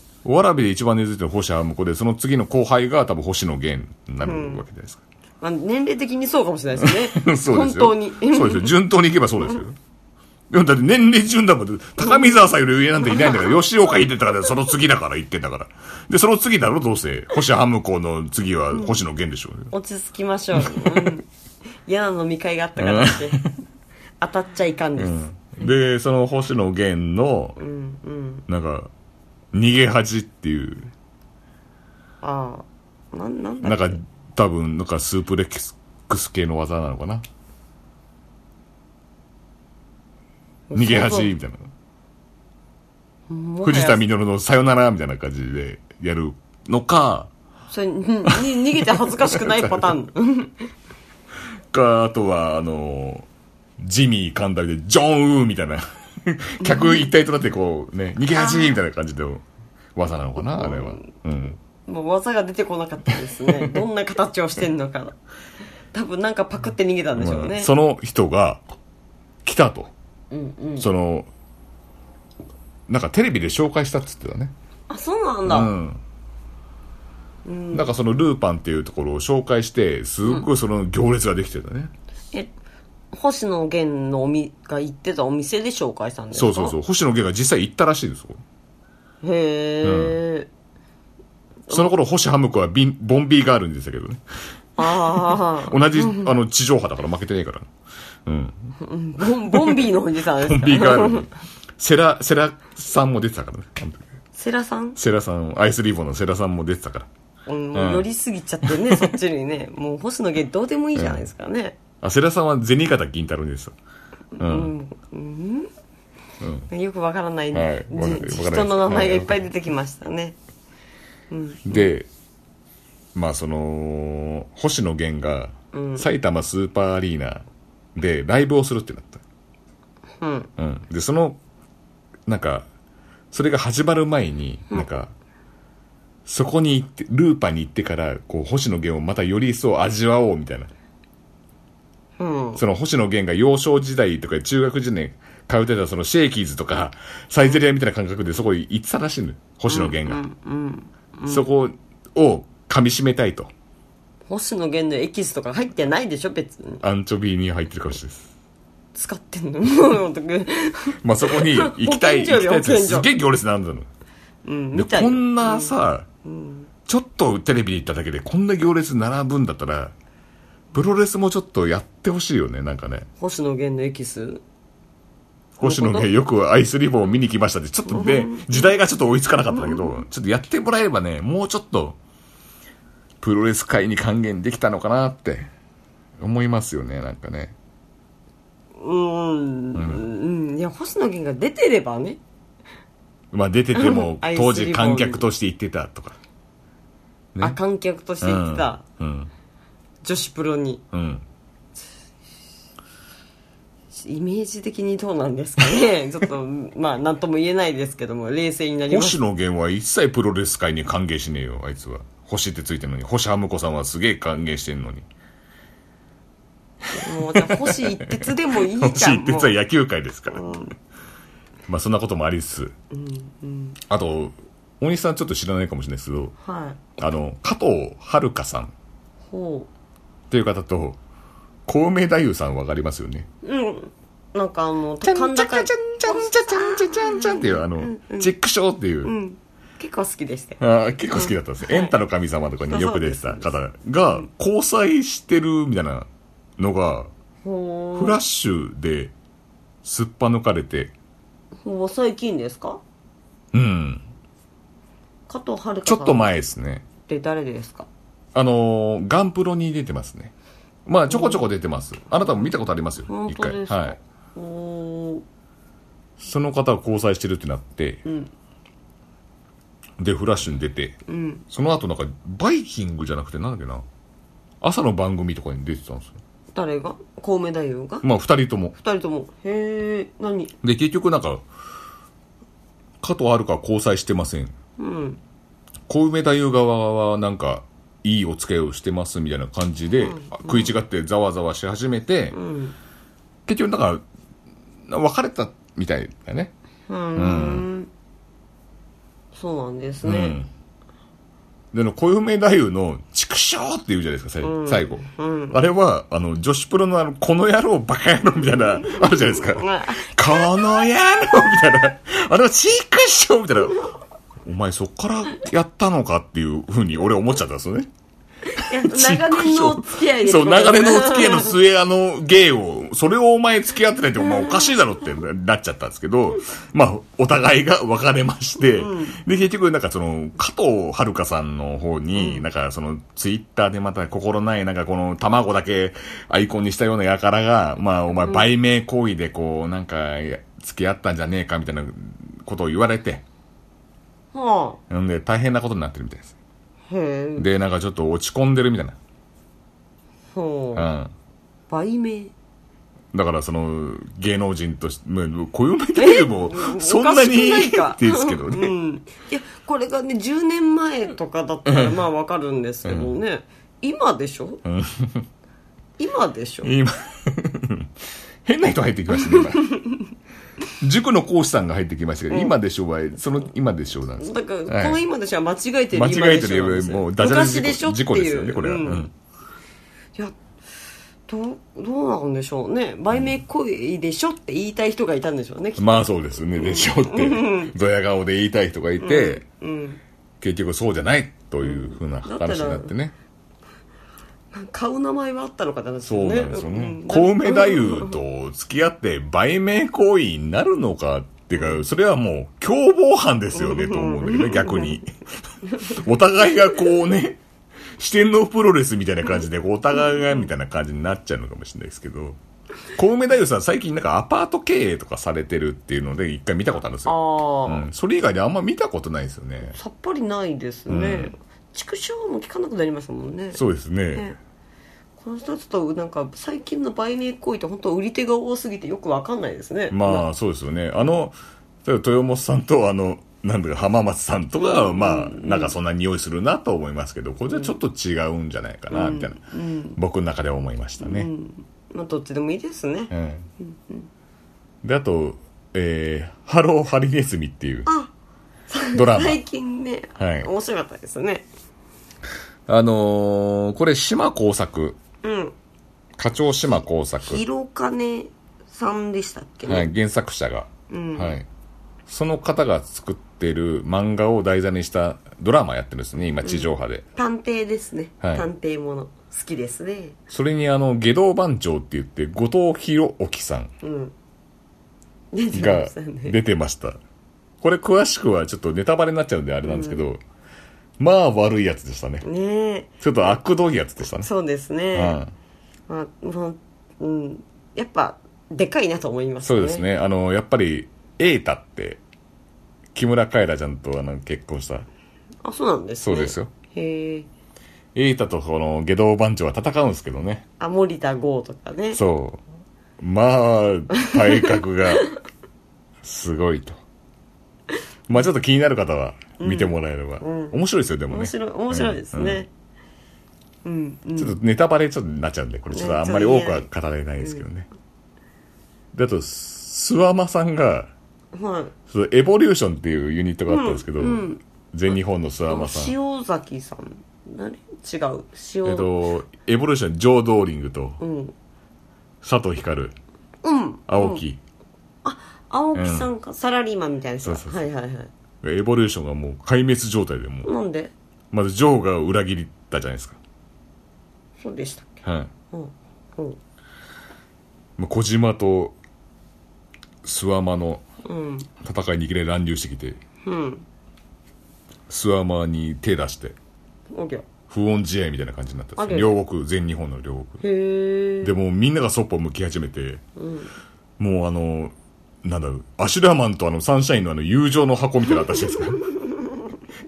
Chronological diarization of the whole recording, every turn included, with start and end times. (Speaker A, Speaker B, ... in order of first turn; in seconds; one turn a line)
Speaker A: 0.2-5.0
Speaker B: 4.2-4.6
Speaker B: 5.4-8.7
Speaker A: 6.8-9.8
Speaker A: 10.5-19.7
Speaker B: 12.0-12.5
Speaker B: 13.1-13.5
Speaker B: 18.7-19.0
Speaker B: 19.7-21.3
Speaker A: 20.6-21.1
Speaker B: 21.9-23.5
Speaker A: 22.8-23.5
Speaker B: 24.2-25.2
Speaker A: 25.0-27.6
Speaker B: 27.6-28.4
Speaker A: 28.5-28.9
Speaker A: 29.5-30.9
Speaker B: 32.2-34.0
Speaker A: 33.6-37.2
Speaker B: 40.7-41.3
Speaker A: 40.7-41.7
Speaker B: 43.3-44.0
Speaker A: 43.6-47.3
Speaker B: 47.7-50.7
Speaker A: 48.3-49.9
Speaker A: 51.7-53.3
Speaker A: 53.8-59.4
Speaker B: 56.6-57.1
Speaker B: 58.4-58.8
Speaker A: 59.9-61.6
Speaker B: 60.4-61.1
Speaker B: 61.9-65.1
Speaker A: 63.5-63.7
Speaker B: 65.9-67.7
Speaker A: 67.2-68.6
Speaker A: 69.4-69.9
Speaker B: 70.3-70.9
Speaker A: 70.8-71.3
Speaker A: 72.9-74.5
Speaker B: 74.9-75.7
Speaker A: 75.5-76.0
Speaker B: 77.4-78.0
Speaker A: 77.7-81.9
Speaker B: 83.1-86.8
Speaker A: 86.3-88.4
Speaker B: 89.2-90.5
Speaker A: 89.8-90.2
Speaker A: 91.7-94.2
Speaker B: 94.8-96.3
Speaker A: 94.8-97.7
Speaker A: 98.2-98.7
Speaker B: 98.8-101.3
Speaker A: 99.5-99.8
Speaker A: 100.4-104.0
Speaker B: 104.4-105.0
Speaker A: 105.0-107.1
Speaker B: 107.5-111.8
Speaker A: 107.7-108.1
Speaker A: 108.6-109.1
Speaker A: 111.0-111.3
Speaker A: 112.0-113.7
Speaker B: 114.3-115.7
Speaker A: 114.4-114.7
Speaker A: 116.4-116.7
Speaker B: 116.7-120.3
Speaker A: 117.5-119.5
Speaker B: 121.3-121.9
Speaker A: 121.7-122.1
Speaker A: 123.1-127.4
Speaker B: 125.7-126.1
Speaker A: 127.9-129.2
Speaker B: 130.2-130.5
Speaker A: 130.6-131.4
Speaker A: 132.3-132.7
Speaker A: 133.3-135.1
Speaker A: 136.3-140.7
Speaker B: 142.2-142.6
Speaker A: 142.6-150.2
Speaker B: 149.7-151.5
Speaker A: 151.3-153.5
Speaker B: 154.3-156.8
Speaker A: 156.8-158.3
Speaker B: 158.9-163.1
Speaker A: 161.0-163.9
Speaker B: 164.4-166.7
Speaker A: 164.7-166.1
Speaker A: 166.8-169.9
Speaker A: 170.7-173.1
Speaker B: 173.2-174.4
Speaker A: 175.6-182.0
Speaker B: 175.6-176.1
Speaker B: 177.9-178.7
Speaker B: 179.5-180.0
Speaker A: 183.2-185.5
Speaker A: 186.2-187.5
Speaker B: 188.8-192.2
Speaker A: 189.7-190.0
Speaker A: 193.3-196.2
Speaker B: 193.7-195.2
Speaker B: 197.4-198.8
Speaker A: 198.2-199.3
Speaker B: 200.0-200.8
Speaker A: 200.9-201.2
Speaker B: 203.9-209.2
Speaker A: 208.9-215.1
Speaker A: 216.8-220.4
Speaker B: 216.9-219.5
Speaker B: 220.3-220.7
Speaker A: 221.7-222.7
Speaker B: 222.9-223.8
Speaker A: 223.8-226.3
Speaker B: 226.4-227.0
Speaker A: 227.0-228.7
Speaker B: 229.3-229.7
Speaker A: 230.3-231.0
Speaker A: 231.7-233.3
Speaker B: 233.4-238.3
Speaker A: 235.0-239.1
Speaker B: 239.0-240.6
Speaker A: 240.6-246.1
Speaker B: 241.1-241.9
Speaker B: 242.6-243.5
Speaker A: 246.6-247.1
Speaker B: 247.4-248.2
Speaker A: 247.9-249.1
Speaker A: 249.8-250.9
Speaker B: 251.6-252.8
Speaker A: 253.5-254.0
Speaker B: 255.3-256.3
Speaker A: 255.8-256.8
Speaker B: 257.0-257.9
Speaker A: 258.3-260.3
Speaker A: 260.9-264.0
Speaker B: 261.1-261.4
Speaker B: 262.2-262.5
Speaker B: 263.1-265.2
Speaker A: 266.2-268.0
Speaker B: 268.0-268.3
Speaker A: 270.0-271.0
Speaker B: 271.1-271.4
Speaker A: 271.5-273.8
Speaker A: 274.6-276.1
Speaker B: 276.5-278.1
Speaker A: 278.0-278.7
Speaker B: 278.7-280.5
Speaker A: 280.6-281.4
Speaker A: 283.0-284.5
Speaker B: 284.8-285.2
Speaker A: 285.9-292.4
Speaker B: 289.9-290.7
Speaker B: 292.3-292.7
Speaker A: 293.5-294.0
Speaker A: 294.9-296.5
Speaker B: 296.9-297.9
Speaker A: 297.1-297.7
Speaker B: 299.3-300.4
Speaker A: 300.0-300.5
Speaker A: 301.7-313.9
Speaker B: 304.4-305.6
Speaker B: 308.9-310.1
Speaker A: 314.4-317.9
Speaker B: 318.5-321.5
Speaker A: 318.5-343.2
Speaker B: 324.2-324.6
Speaker B: 328.8-329.2
Speaker B: 332.1-332.4
Speaker B: 338.2-338.4
Speaker B: 344.3-344.8
Speaker A: 344.9-346.3
Speaker B: 346.9-347.5
Speaker A: 347.4-348.9
Speaker B: 350.3-350.9
Speaker A: 350.7-351.1
Speaker B: 351.7-352.3
Speaker A: 353.1-358.7
Speaker B: 355.9-364.6
Speaker A: 361.7-362.0
Speaker A: 362.8-363.1
Speaker A: 364.6-365.3
Speaker B: 366.0-366.7
Speaker A: 366.6-367.9
Speaker A: 368.4-369.7
Speaker B: 369.1-370.1
Speaker A: 370.8-375.0
Speaker B: 372.3-372.6
Speaker B: 374.2-379.1
Speaker A: 375.9-379.1
Speaker B: 381.3-387.7
Speaker A: 385.8-389.4
Speaker B: 389.0-390.0
Speaker A: 390.4-393.1
Speaker B: 391.6-392.9
Speaker B: 394.5-398.2
Speaker A: 396.0-405.1
Speaker B: 401.6-401.8
Speaker B: 403.5-405.0
Speaker A: 405.8-407.4
Speaker A: 407.9-412.4
Speaker A: 412.9-419.8
Speaker B: 417.1-417.8
Speaker B: 419.7-423.6
Speaker A: 420.9-421.3
Speaker A: 423.5-424.3
Speaker B: 425.2-430.2
Speaker A: 429.9-439.4
Speaker B: 434.6-435.7
Speaker B: 437.5-437.7
Speaker B: 438.9-440.0
Speaker A: 439.9-441.3
Speaker B: 441.0-444.1
Speaker A: 443.1-443.5
Speaker A: 444.8-447.9
Speaker B: 447.9-448.1
Speaker B: 448.7-451.5
Speaker A: 448.9-449.4
Speaker A: 450.2-450.5
Speaker A: 452.7-455.0
Speaker B: 455.2-455.5
Speaker A: 456.2-457.4
Speaker B: 457.2-459.9
Speaker A: 459.6-461.4
Speaker B: 460.9-461.4
Speaker A: 462.1-467.0
Speaker B: 466.4-470.2
Speaker A: 470.3-473.7
Speaker B: 473.8-474.1
Speaker B: 475.3-476.4
Speaker A: 475.5-477.0
Speaker A: 477.6-480.2
Speaker B: 479.6-480.1
Speaker A: 481.0-482.2
Speaker B: 482.2-483.0
Speaker A: 483.0-484.3
Speaker B: 484.0-485.2
Speaker A: 484.9-485.3
Speaker B: 485.9-489.8
Speaker A: 489.4-492.0
Speaker A: 492.9-494.9
Speaker B: 495.4-497.3
Speaker A: 496.0-496.5
Speaker A: 497.9-500.4
Speaker B: 500.6-502.0
Speaker A: 501.9-502.4
Speaker A: 503.0-505.1
Speaker B: 503.9-505.2
Speaker A: 506.0-506.8
Speaker A: 508.1-512.4
Speaker B: 509.4-510.6
Speaker B: 511.1-512.5
Speaker B: 513.6-514.4
Speaker A: 514.2-517.7
Speaker B: 515.7-516.7
Speaker A: 518.9-520.9
Speaker B: 521.3-521.7
Speaker A: 521.9-525.9
Speaker B: 523.5-524.4
Speaker B: 525.5-528.9
Speaker A: 528.6-531.0
Speaker B: 531.0-531.3
Speaker A: 532.2-532.9
Speaker B: 533.4-534.2
Speaker A: 533.9-534.4
Speaker B: 535.0-538.1
Speaker A: 535.7-536.1
Speaker A: 537.2-537.6
Speaker A: 538.4-540.5
Speaker B: 540.4-540.9
Speaker A: 541.3-543.2
Speaker B: 544.4-545.0
Speaker A: 545.0-545.3
Speaker B: 545.5-546.4
Speaker A: 547.8-548.8
Speaker A: 550.0-550.8
Speaker B: 551.0-551.5
Speaker A: 551.6-553.0
Speaker B: 553.2-553.6
Speaker A: 554.9-556.4
Speaker B: 556.9-557.2
Speaker A: 557.5-560.4
Speaker B: 558.8-559.2
Speaker B: 560.4-561.3
Speaker A: 561.2-563.0
Speaker B: 563.1-563.5
Speaker A: 564.0-568.8